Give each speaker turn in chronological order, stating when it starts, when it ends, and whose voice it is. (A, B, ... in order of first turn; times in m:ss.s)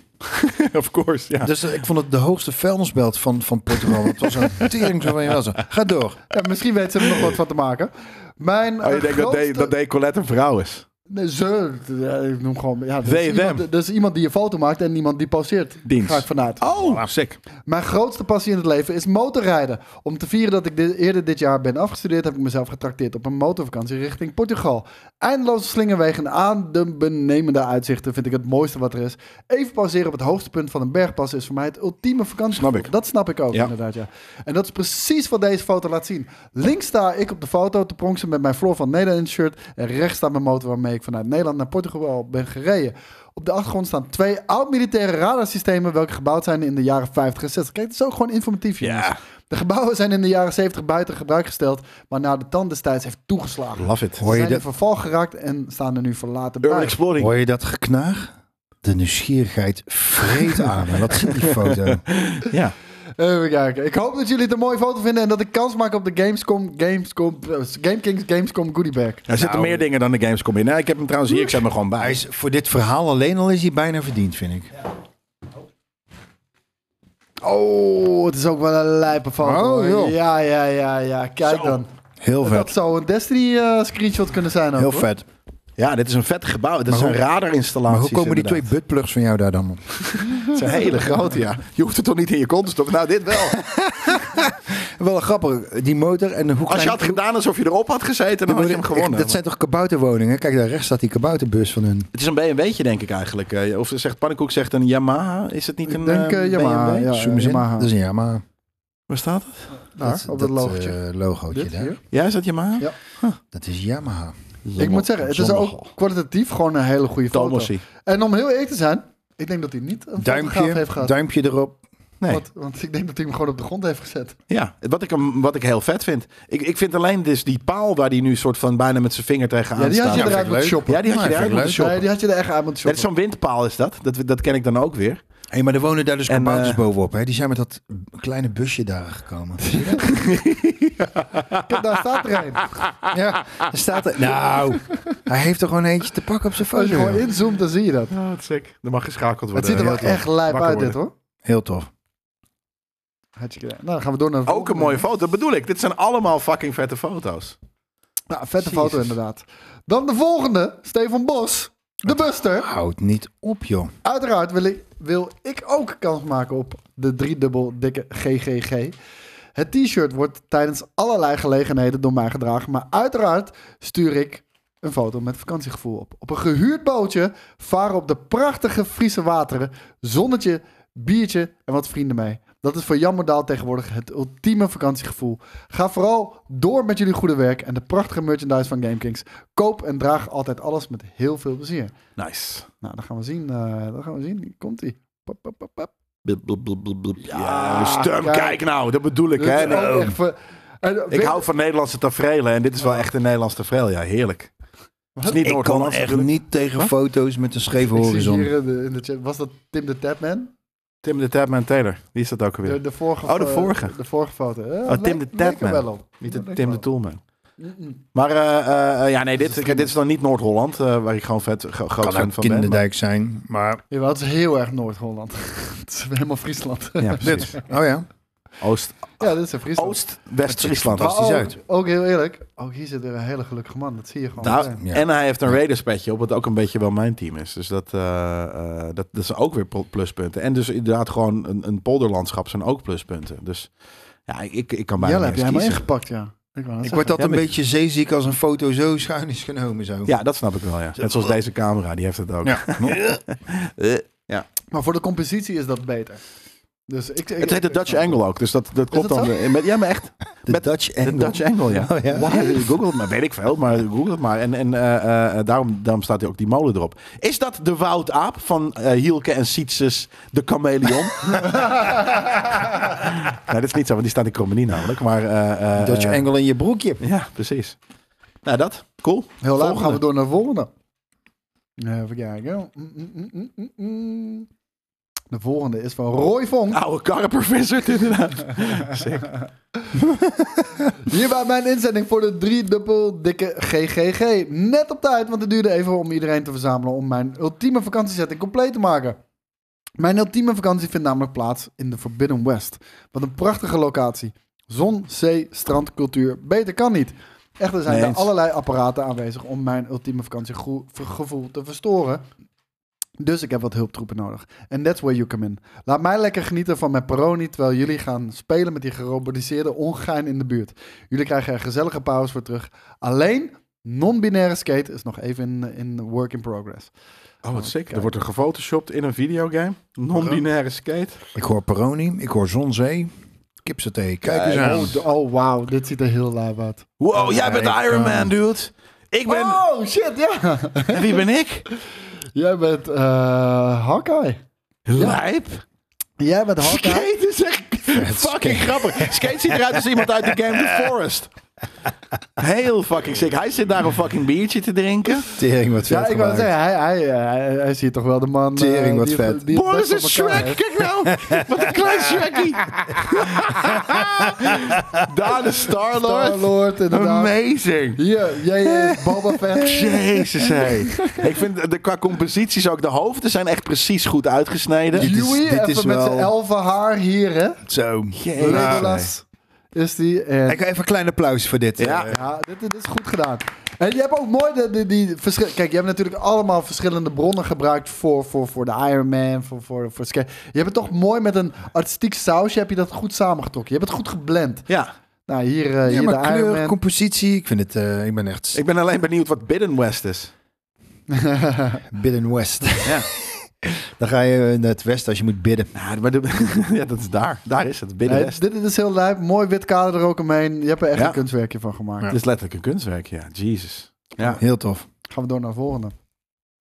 0:00.2-0:01.5 A
0:01.4-0:06.2 B
0:03.8-0:04.9 A
0:06.3-0:09.7 C
0:08.8-0:10.8 A
0:11.1-0:16.6 C
0:13.0-0:13.6 A
0:15.8-0:17.4 A
0:16.8-0:17.1 B
0:17.6-0:57.0 C
0:32.5-0:32.9 A
0:48.8-0:49.2 A
0:53.8-0:54.2 A
0:54.2-0:54.6 B
0:56.6-0:57.3 A
0:57.2-1:02.0 B
1:01.4-1:02.7 A
1:03.2-1:09.7 C
1:09.3-1:12.2 A
1:09.4-1:09.8 B
1:12.0-1:14.7 B
1:17.4-1:21.9 C
1:19.4-1:20.2 B
1:21.5-1:21.8 A
1:22.2-1:22.7 B
1:22.4-1:25.1 C
1:24.8-1:25.2 B
1:25.8-1:28.7 A
1:26.9-1:27.2 B
1:27.8-1:30.0 B
1:30.1-1:33.6 A
1:30.5-1:31.0 C
1:33.5-1:37.2 B
1:36.7-1:39.4 A
1:38.5-1:42.1 B
1:42.1-1:46.6 A
1:45.8-1:47.9 C
1:46.5-1:48.4 B
1:49.1-1:49.7 A
1:49.9-1:51.0 C
1:50.0-1:51.9 B
1:51.5-1:52.0 C
1:52.1-1:53.4 A
1:53.5-1:54.3 B
1:54.6-1:55.9 A
1:54.8-2:01.1 C
1:57.3-1:57.8 A
2:00.2-2:01.8 B
2:02.3-2:04.4 C
2:04.5-2:12.0 A
2:09.8-2:13.1 C
2:10.1-2:12.0 B
2:12.8-2:15.2 A
2:15.5-2:20.1 B
2:16.3-2:16.8 A
2:19.6-2:20.2 C
2:20.0-2:21.8 A
2:21.6-2:22.7 C
2:22.7-2:23.1 A
2:23.1-2:27.3 B
2:26.7-2:28.1 C
2:28.1-2:31.0 A
2:29.5-2:31.1 C
2:29.7-2:30.2 B
2:31.4-2:31.9 B
2:33.4-2:35.0 C
2:34.5-2:37.6 A
2:38.3-2:42.7 C
2:42.6-2:43.9 B
2:44.0-2:49.0 C
2:49.6-3:11.9 C
3:12.2-3:12.7 A
3:12.8-3:15.9 C
3:16.2-3:20.1 A
3:17.2-3:18.6 C
3:19.4-3:21.4 C
3:21.1-3:24.5 A
3:25.2-3:25.5 C
3:25.2-3:26.9 A
3:25.4-3:28.5 B
3:27.9-3:30.5 C
3:31.0-3:33.9 A
3:32.6-3:36.8 C
3:34.9-3:37.2 A
3:37.6-3:38.0 C
3:38.1-3:42.8 A
3:39.4-3:39.9 C
3:42.0-3:43.8 B
3:43.9-3:47.6 C
3:47.0-3:47.5 A
3:47.2-3:48.0 B
3:48.6-3:51.2 A
3:49.2-3:50.0 C
3:50.4-3:51.6 B
3:51.0-3:54.8 C
3:54.4-4:03.7 A
3:54.5-3:55.5 B
4:04.3-4:05.8 A
4:05.0-4:07.2 C
4:06.8-4:10.1 B
4:07.2-4:07.5 A
4:10.0-4:14.5 A
4:12.4-4:13.2 B
4:14.7-4:16.2 C
4:16.9-4:18.2 C
4:17.4-4:36.2 A
4:18.9-4:19.3 C
4:20.4-4:22.7 B
4:31.4-4:32.7 C
4:35.8-4:37.0 B
4:37.0-4:37.8 A
4:38.4-4:40.0 A
4:39.4-4:40.7 C
4:41.8-4:44.5 C
4:45.3-4:46.8 C
4:46.7-4:49.3 A
4:50.8-4:59.2 C
5:00.0-5:12.2 C
5:07.9-5:08.3 A
5:13.2-5:26.9 C
5:27.4-5:31.2 A
5:27.5-5:28.1 C
5:31.3-5:33.1 B
5:33.6-5:35.0 B
5:34.3-5:35.0 A
5:34.4-5:36.9 C
5:37.0-5:39.6 A
5:37.1-5:38.3 B
5:39.2-5:41.2 C
5:40.9-5:41.6 A
5:42.3-5:44.4 C
5:44.9-5:45.6 A
5:44.9-5:45.2 C
5:46.2-5:47.1 C
5:46.6-5:51.3 A
5:47.9-5:50.8 B
5:52.4-5:55.3 A
5:55.3-5:56.5 B
5:55.9-6:00.6 C
5:58.6-5:59.4 B
5:59.5-6:08.0 A
6:01.0-6:02.2 B
6:03.0-6:04.8 B
6:06.0-6:07.3 C
6:07.9-6:11.3 C
6:08.7-6:15.1 A
6:14.9-6:16.3 B
6:14.9-6:17.6 C
6:17.7-6:18.9 B
6:18.1-6:19.1 A
6:18.4-6:20.6 C
6:20.5-6:22.2 B
6:21.8-6:22.1 A
6:22.1-6:34.6 C
6:35.3-6:36.8 C
6:35.9-6:38.6 B
6:38.5-6:40.3 A
6:41.1-6:41.8 C
6:41.9-6:45.7 B
6:45.7-6:48.4 A
6:48.0-6:52.1 C
6:52.1-6:54.4 A
6:54.3-6:54.8 B
6:55.1-6:55.9 C